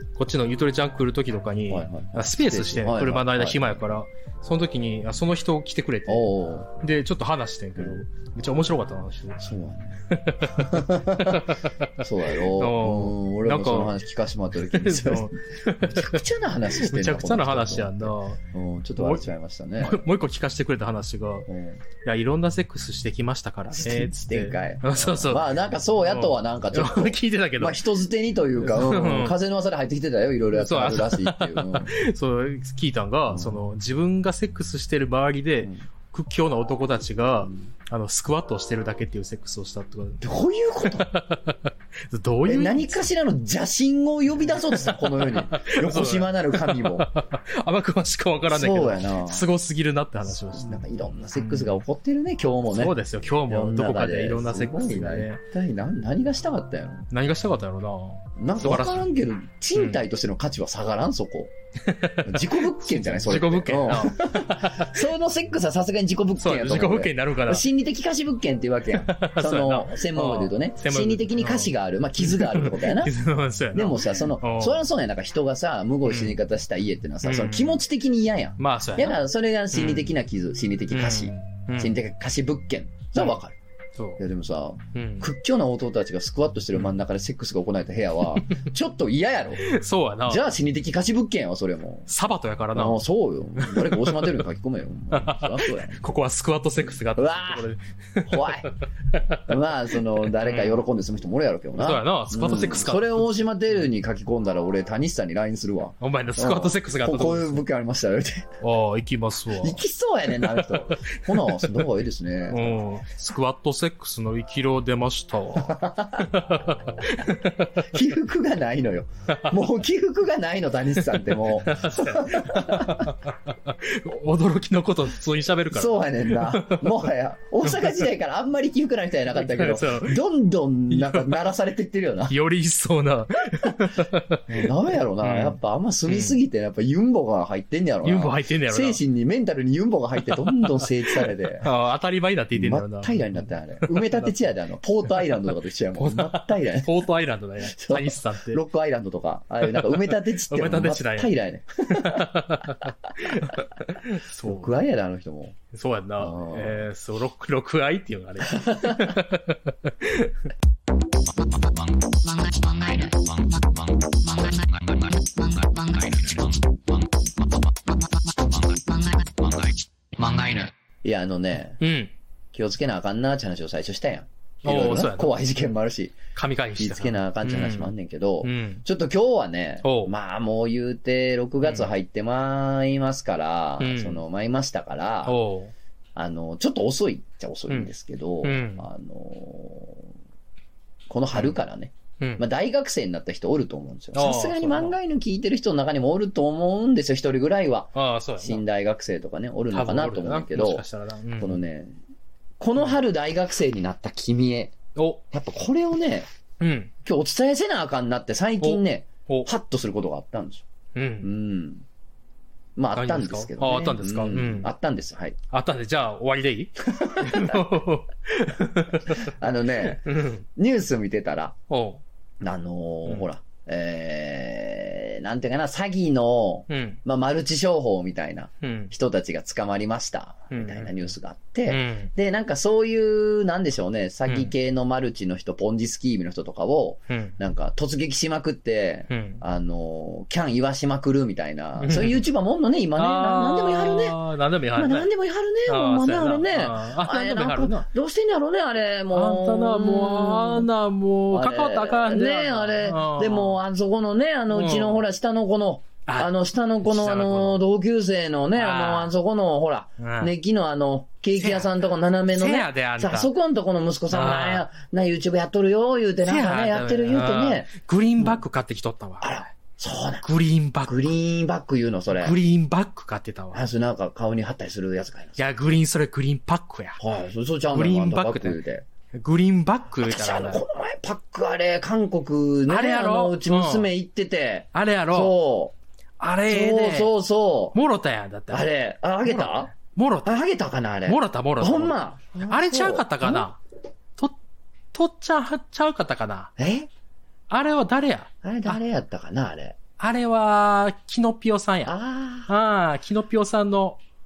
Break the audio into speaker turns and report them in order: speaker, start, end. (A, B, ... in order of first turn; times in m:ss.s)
0:00.2-0:09.4 A
0:01.7-0:04.0 B
0:06.1-0:06.7 B
0:09.4-0:20.0 B
0:10.1-0:14.0 A
0:14.6-0:18.4 A
0:19.0-0:19.3 A
0:19.8-0:21.5 A
0:21.5-0:21.8 B
0:22.0-0:27.8 A
0:23.7-0:31.9 B
0:28.6-0:29.4 A
0:30.5-0:40.2 A
0:33.3-0:33.6 B
0:40.2-0:41.1 B
0:40.8-0:43.1 A
0:42.4-0:47.1 B
0:44.5-0:50.8 A
0:48.5-0:49.4 B
0:50.5-0:53.0 B
0:51.4-0:51.8 A
0:52.7-0:55.4 A
0:53.5-0:57.1 B
0:57.1-0:59.1 A
0:58.4-1:01.5 B
0:59.7-1:00.0 A
1:01.8-1:05.1 A
1:02.2-1:13.1 B
1:06.4-1:07.7 A
1:08.9-1:14.9 A
1:13.7-1:23.6 B
1:16.0-1:16.4 A
1:17.2-1:17.8 A
1:18.6-1:19.2 A
1:19.7-1:20.1 A
1:20.9-1:22.0 A
1:24.0-1:24.2 A
1:24.2-1:29.7 B
1:24.9-1:25.3 A
1:29.7-1:30.5 A
1:30.3-1:32.1 B
1:32.1-1:33.0 A
1:32.8-1:36.1 B
1:33.6-1:34.4 A
1:35.1-1:40.8 A
1:37.1-1:37.7 B
1:38.2-1:38.7 B
1:39.5-1:48.5 B
1:41.8-1:43.3 A
1:46.0-1:47.6 A
1:48.6-1:49.8 A
1:49.6-1:53.0 B
1:50.3-1:51.9 A
1:52.5-1:57.8 A
1:55.6-1:56.5 B
1:57.8-2:03.1 B
1:59.3-1:59.6 A
2:01.0-2:07.1 A
2:05.7-2:12.4 B
2:07.6-2:08.1 A
2:09.4-2:10.2 A
2:10.9-2:11.4 A
2:12.3-2:16.4 A
2:14.5-2:21.7 B
2:18.0-2:19.0 A
2:20.2-2:24.3 A
2:22.5-2:27.0 B
2:26.0-2:28.6 A
2:27.6-2:32.3 B
2:29.6-2:31.3 A
2:31.9-2:34.8 A
2:33.3-2:33.6 B
2:34.4-2:35.6 B
2:35.7-2:40.4 A
2:36.2-2:36.9 B
2:38.6-2:39.1 B
2:41.4-2:50.7 C
2:51.0-2:51.8 B
2:51.8-2:52.1 A
2:52.5-2:56.2 B
2:54.6-2:55.4 A
2:56.3-2:58.8 A
2:56.8-3:05.4 B
2:59.8-3:00.1 A
3:01.6-3:01.9 A
3:03.8-3:04.2 A
3:05.2-3:05.7 A
3:06.2-3:10.1 B
3:08.4-3:08.9 A
3:11.1-3:20.8 B
3:12.2-3:12.4 A
3:14.1-3:15.0 A
3:18.0-3:18.6 A
3:19.7-3:21.6 A
3:21.4-3:22.0 B
3:22.6-3:24.8 B
3:25.0-3:25.2 A
3:25.3-3:26.3 B
3:26.6-3:26.9 A
3:27.0-3:30.6 B
3:28.6-3:29.5 A
3:31.0-3:31.3 A
3:31.2-3:31.8 B
3:32.8-3:35.4 B
3:32.9-3:34.7 A
3:35.5-3:39.3 A
3:36.8-3:37.6 B
3:39.1-3:41.6 B
3:39.8-3:40.4 A
3:41.7-3:42.0 A
3:42.4-4:04.2 B
3:46.7-3:47.0 A
3:48.6-3:48.9 A
3:50.5-3:51.1 A
3:51.7-3:52.1 A
3:54.3-3:54.5 A
3:57.1-3:57.4 A
3:59.1-3:59.4 A
4:01.8-4:02.3 A
4:03.0-4:05.1 A
4:04.8-4:10.7 B
4:05.7-4:07.9 A
4:09.1-4:13.6 A
4:11.3-4:28.4 B
4:14.5-4:15.0 A
4:16.1-4:17.6 A
4:18.6-4:19.1 A
4:20.0-4:20.3 A
4:21.4-4:21.7 A
4:22.3-4:23.3 A
4:24.1-4:24.7 A
4:26.2-4:29.4 A
4:29.2-4:30.3 B
4:30.2-4:31.1 A
4:30.8-4:32.4 B
4:32.1-4:33.6 A
4:33.5-4:35.5 B
4:35.4-4:37.0 A
4:37.0-4:38.8 B
4:37.7-4:38.6 A
4:39.1-4:40.6 A
4:40.0-4:45.8 B
4:42.7-4:43.9 A
4:44.7-4:45.4 A
4:46.2-4:47.1 A
4:46.5-4:47.8 B
4:47.7-4:48.7 A
4:48.5-4:49.7 B
4:49.2-4:50.4 A
4:50.3-4:53.5 B
4:51.1-4:53.6 A
4:54.9-4:56.5 A
4:56.6-4:56.9 B
4:57.5-4:58.8 A
4:58.4-4:59.8 B
5:00.0-5:01.9 A
5:01.9-5:02.5 B
5:02.5-5:04.0 A